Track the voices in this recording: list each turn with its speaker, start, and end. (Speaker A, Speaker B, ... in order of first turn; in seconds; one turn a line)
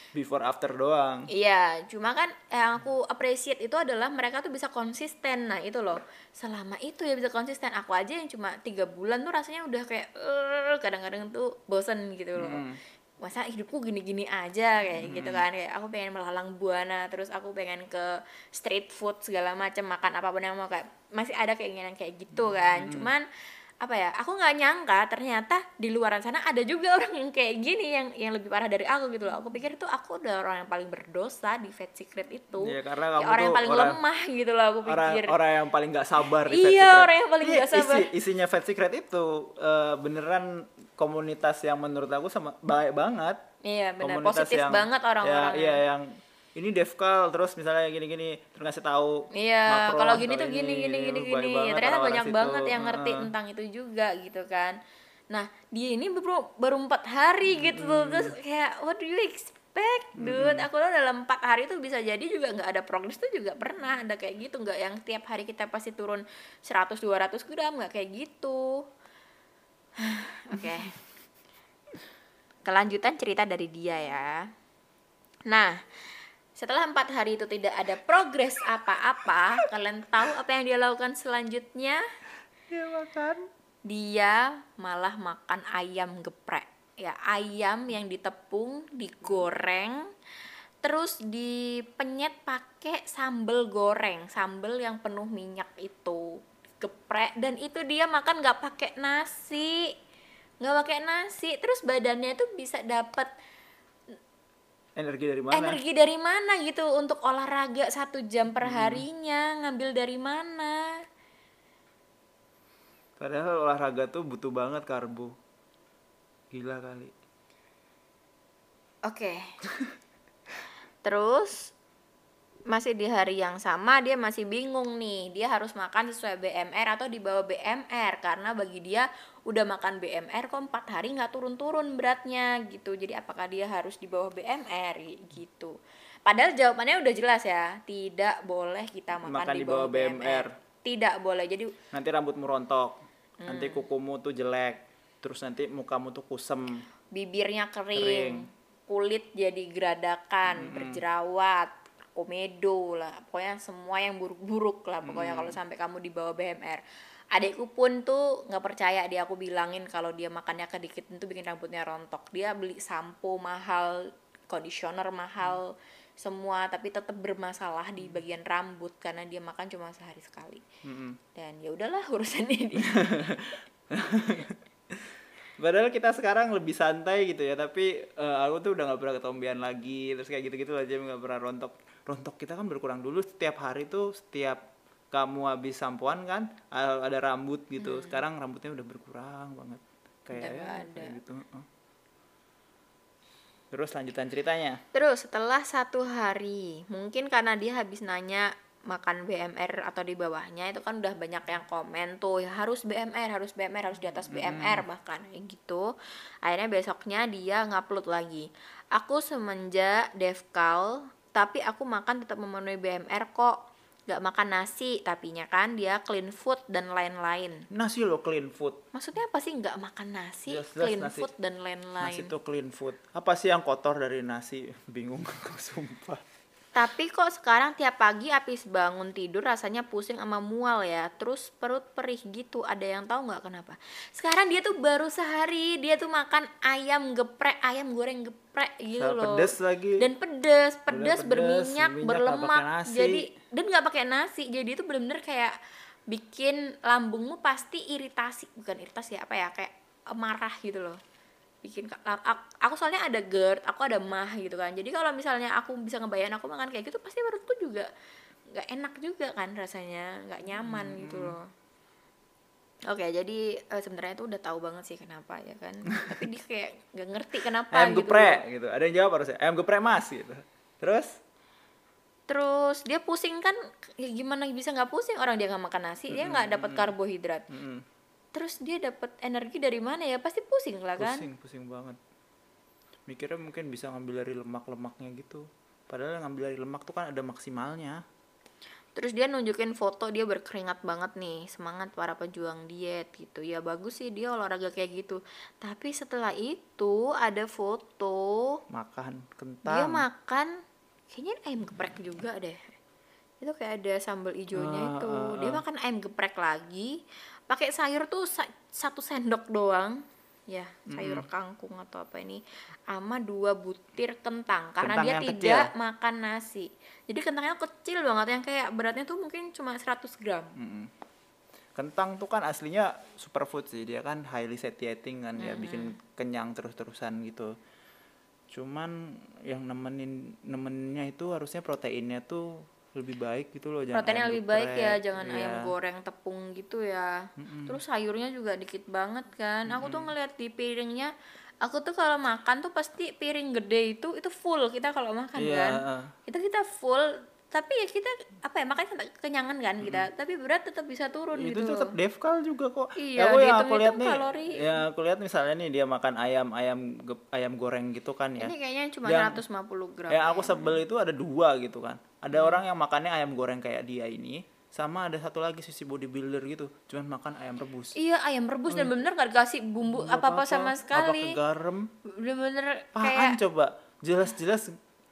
Speaker A: 0.1-1.3
Speaker B: 1.3-12.6
Speaker A: 12.4-12.8
Speaker B: 13.2-23.3
Speaker A: 15.0-15.4
Speaker A: 22.4-23.1
Speaker B: 23.8-35.4
Speaker A: 32.6-34.0
Speaker A: 34.8-43.4
Speaker B: 36.3-38.1
Speaker B: 43.6-45.8
Speaker A: 44.0-53.3
Speaker B: 49.3-54.8
Speaker B: 55.3-68.8
Speaker A: 57.5-58.3
Speaker A: 60.2-60.7
Speaker B: 70.0-71.0
Speaker A: 70.5-70.9
Speaker B: 72.7-74.5
Speaker B: 75.5-82.0
Speaker A: 82.7-83.5
Speaker B: 83.8-90.1
Speaker B: 90.8-99.9
Speaker B: 100.6-103.3
Speaker A: 105.0-105.8
Speaker B: 105.5-110.9
Speaker A: 108.6-109.0
Speaker A: 113.2-115.3
Speaker A: 116.5-117.1
Speaker B: 119.0-119.5
Speaker B: 121.0-121.7
Speaker B: 122.7-141.7
Speaker A: 139.2-140.5
Speaker A: 141.9-146.8
Speaker B: 143.4-143.8
Speaker B: 147.1-156.8
Speaker A: 147.9-148.4
Speaker A: 150.5-151.0
Speaker A: 155.0-155.6
Speaker B: 157.3-170.6
Speaker A: 170.8-171.2
Speaker B: 171.3-173.4
Speaker A: 172.9-184.6
Speaker A: 185.1-191.7
Speaker B: 187.8-188.2
Speaker B: 190.3-191.2
Speaker A: 193.7-194.8
Speaker B: 194.9-205.9
Speaker A: 204.3-204.8
Speaker B: 206.4-217.6
Speaker A: 217.7-218.8
Speaker B: 218.9-222.3
Speaker A: 220.4-221.3
Speaker A: 222.0-226.2
Speaker B: 226.7-245.5
Speaker A: 239.0-240.1
Speaker A: 240.9-243.2
Speaker B: 246.1-251.0
Speaker B: 251.6-257.9
Speaker B: 258.5-261.5
Speaker A: 260.6-261.4
Speaker B: 262.9-268.4
Speaker A: 267.7-271.2
Speaker B: 272.3-277.4
Speaker A: 276.1-276.9
Speaker A: 277.5-277.9
Speaker B: 278.3-281.3
Speaker A: 281.0-282.0
Speaker A: 283.1-288.0
Speaker B: 288.9-298.6
Speaker A: 298.7-300.0
Speaker B: 299.7-300.6
Speaker B: 301.1-302.7
Speaker B: 303.4-307.0
Speaker A: 304.5-305.6
Speaker B: 307.5-320.5
Speaker A: 310.9-311.2
Speaker A: 314.8-315.7
Speaker A: 320.6-320.9
Speaker A: 321.8-327.5
Speaker B: 325.4-325.9
Speaker A: 328.5-335.7
Speaker B: 333.9-341.1
Speaker A: 337.4-337.8
Speaker A: 339.7-340.1
Speaker B: 341.6-351.9
Speaker A: 345.4-346.1
Speaker A: 349.8-350.1
Speaker A: 351.3-358.5
Speaker B: 353.0-354.8
Speaker B: 358.4-360.8
Speaker A: 359.1-359.4
Speaker A: 360.1-367.9
Speaker B: 362.3-362.6
Speaker B: 367.9-371.4
Speaker A: 368.7-369.0
Speaker A: 369.8-371.9
Speaker B: 372.1-373.4
Speaker A: 372.9-374.8